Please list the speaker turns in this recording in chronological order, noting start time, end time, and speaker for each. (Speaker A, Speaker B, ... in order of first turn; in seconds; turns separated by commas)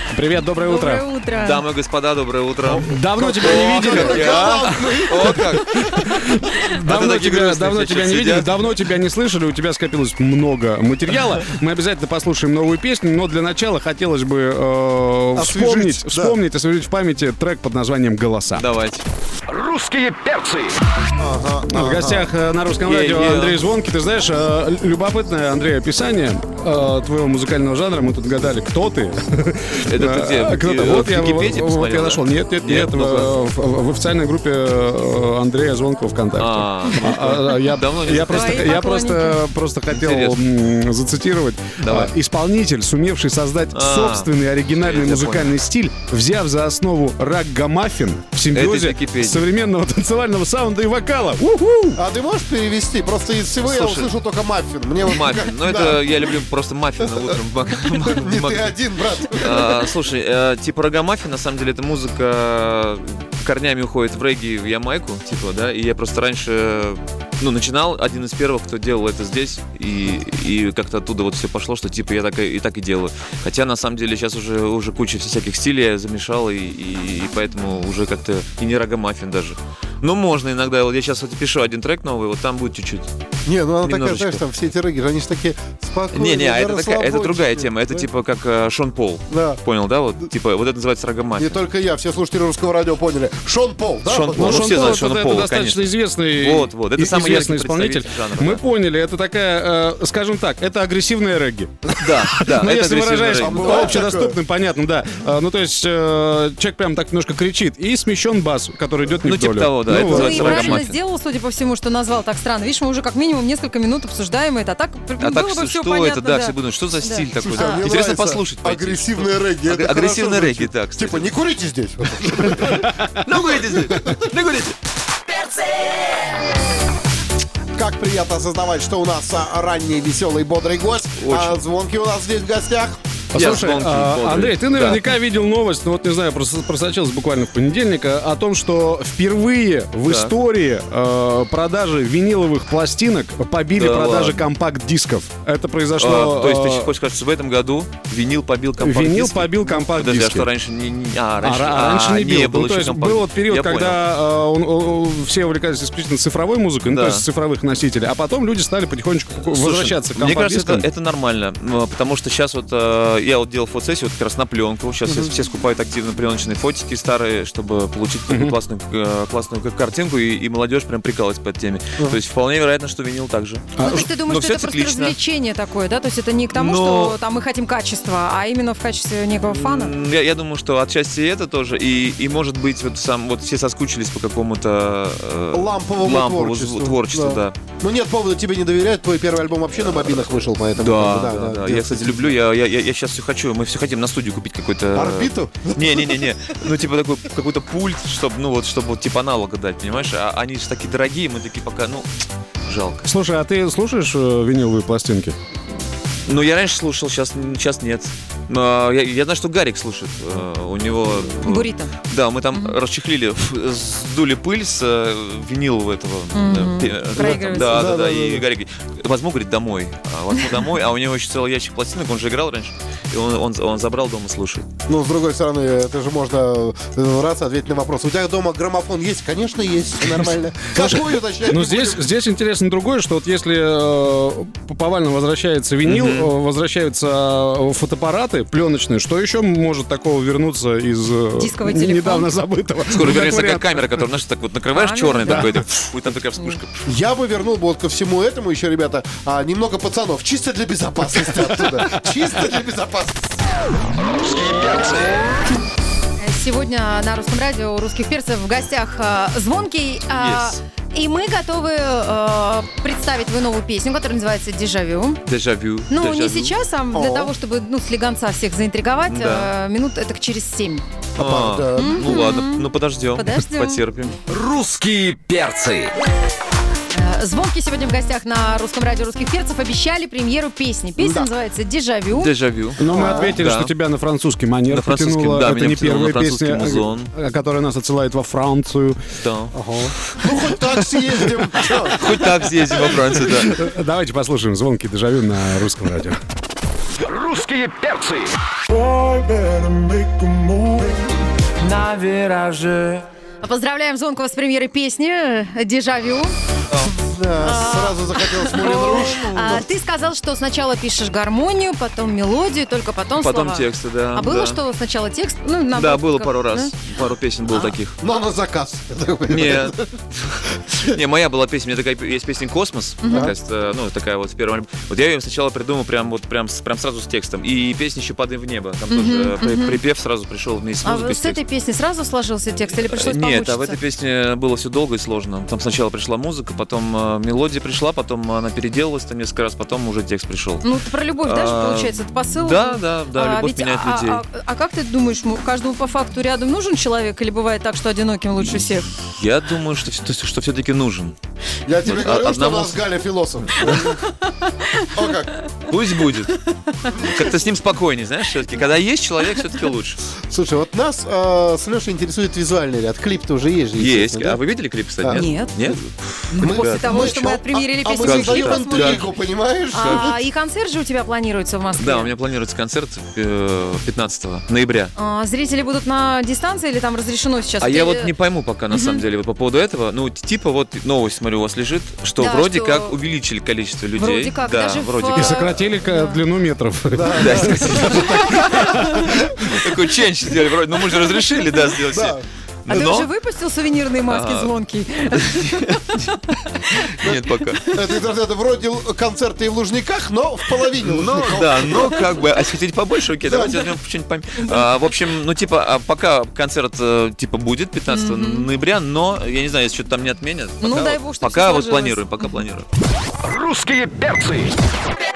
Speaker A: 0.1-1.1, Speaker B: 0.4-1.6, Speaker C: 1.3-5.9, Speaker D: 2.7-5.6, Speaker A: 2.8-18.6, Speaker C: 6.7-8.6, Speaker D: 15.4-16.4, Speaker C: 18.6-19.1, Speaker E: 19.5-20.8, Speaker D: 21.2-22.3, Speaker A: 21.7-52.0, Speaker C: 22.9-23.6, Speaker C: 29.9-33.4, Speaker C: 36.4-38.8, Speaker B: 38.2-39.4, Speaker C: 39.9-40.4, Speaker C: 41.8-42.1, Speaker C: 43.7-45.5, Speaker C: 48.5-49.5, Speaker D: 52.0-56.4, Speaker C: 53.6-54.2, Speaker C: 55.0-58.8, Speaker D: 57.0-57.4, Speaker D: 58.0-59.9, Speaker C: 59.4-83.1, Speaker D: 83.5-88.1, Speaker C: 83.8-84.4, Speaker C: 86.1-91.6, Speaker D: 89.3-89.6, Speaker D: 91.4-95.0, Speaker C: 94.1-98.6, Speaker A: 94.3-110.8, Speaker C: 102.0-104.1, Speaker D: 103.4-104.4, Speaker C: 109.2-111.0, Speaker B: 109.9-117.9, Speaker C: 115.2-121.3, Speaker D: 117.4-124.2, Speaker C: 122.7-124.8, Speaker D: 127.7-133.0, Speaker C: 131.2-131.6, Speaker A: 133.3-146.9, Speaker C: 133.3-135.0, Speaker C: 140.1-140.3, Speaker C: 143.8-144.5, Speaker C: 146.0-154.0, Speaker A: 148.8-150.5, Speaker A: 151.4-160.9, Speaker C: 156.8-157.2, Speaker C: 159.4-175.2, Speaker D: 165.1-165.3, Speaker A: 168.3-168.6, Speaker A: 173.8-174.1, Speaker B: 173.8-179.9, Speaker C: 176.5-177.2, Speaker C: 179.4-187.6, Speaker D: 185.5-192.4, Speaker C: 189.8-202.1, Speaker D: 194.9-196.2, Speaker C: 202.7-203.1, Speaker A: 203.1-205.4, Speaker C: 206.3-224.7, Speaker B: 211.4-211.9, Speaker B: 216.3-217.8, Speaker D: 217.1-218.5, Speaker D: 224.9-232.0, Speaker A: 230.1-243.8, Speaker C: 235.8-236.3, Speaker B: 241.4-242.3, Speaker C: 242.9-246.9, Speaker B: 244.7-245.6, Speaker D: 246.9-253.4, Speaker E: 254.2-255.3, Speaker B: 256.2-265.2, Speaker C: 260.1-260.6, Speaker C: 265.2-266.6, Speaker B: 265.9-270.9, Speaker D: 266.9-267.3, Speaker C: 269.1-269.5, Speaker C: 271.2-274.2, Speaker D: 271.2-272.2, Speaker B: 271.8-273.8, Speaker E: 274.3-275.9, Speaker B: 276.9-282.3, Speaker D: 281.0-281.3, Speaker C: 282.1-283.7, Speaker A: 282.8-289.0, Speaker B: 282.9-283.3, Speaker D: 282.9-283.3, Speaker C: 284.7-287.1, Speaker C: 289.2-289.5, Speaker D: 289.6-292.1, Speaker C: 291.9-293.6, Speaker A: 293.1-296.2, Speaker E: 297.0-298.3, Speaker D: 298.7-300.9, Speaker C: 301.6-303.1, Speaker B: 303.4-306.3, Speaker D: 307.0-309.7, Speaker B: 307.4-316.7, Speaker C: 313.2-314.6, Speaker C: 315.7-318.0, Speaker D: 318.0-319.8, Speaker C: 319.3-331.4, Speaker B: 323.0-323.4, Speaker B: 328.9-329.8, Speaker B: 330.8-333.8, Speaker C: 332.7-340.7, Speaker B: 340.6-348.9, Speaker C: 341.2-344.2, Speaker C: 348.4-351.1, Speaker D: 351.7-354.0, Speaker C: 351.8-352.8, Speaker C: 353.4-353.9, Speaker B: 353.7-354.9, Speaker D: 354.9-355.3, Speaker C: 355.7-356.4, Speaker D: 356.9-357.2, Speaker C: 357.0-360.0, Speaker D: 360.2-364.4, Speaker C: 363.8-367.3, Speaker D: 365.0-365.7, Speaker B: 365.1-365.6, Speaker B: 366.3-369.1, Speaker D: 366.4-370.2, Speaker C: 367.9-369.1, Speaker B: 369.7-372.1, Speaker C: 369.8-370.1, Speaker C: 371.8-374.9, Speaker B: 375.0-378.1, Speaker C: 377.6-385.6, Speaker B: 378.7-379.0, Speaker B: 382.2-383.0, Speaker B: 384.0-386.2, Speaker A: 385.1-389.1, Speaker D: 386.9-389.1, Speaker C: 387.1-393.1, Speaker B: 387.8-388.2, Speaker D: 391.9-392.2, Speaker B: 392.7-397.2, Speaker C: 394.1-394.5, Speaker C: 395.1-396.1, Speaker C: 396.8-397.7, Speaker D: 397.7-402.0, Speaker C: 400.7-412.7, Speaker D: 403.2-403.7, Speaker B: 407.9-408.5, Speaker B: 410.6-412.4, Speaker E: 413.2-414.5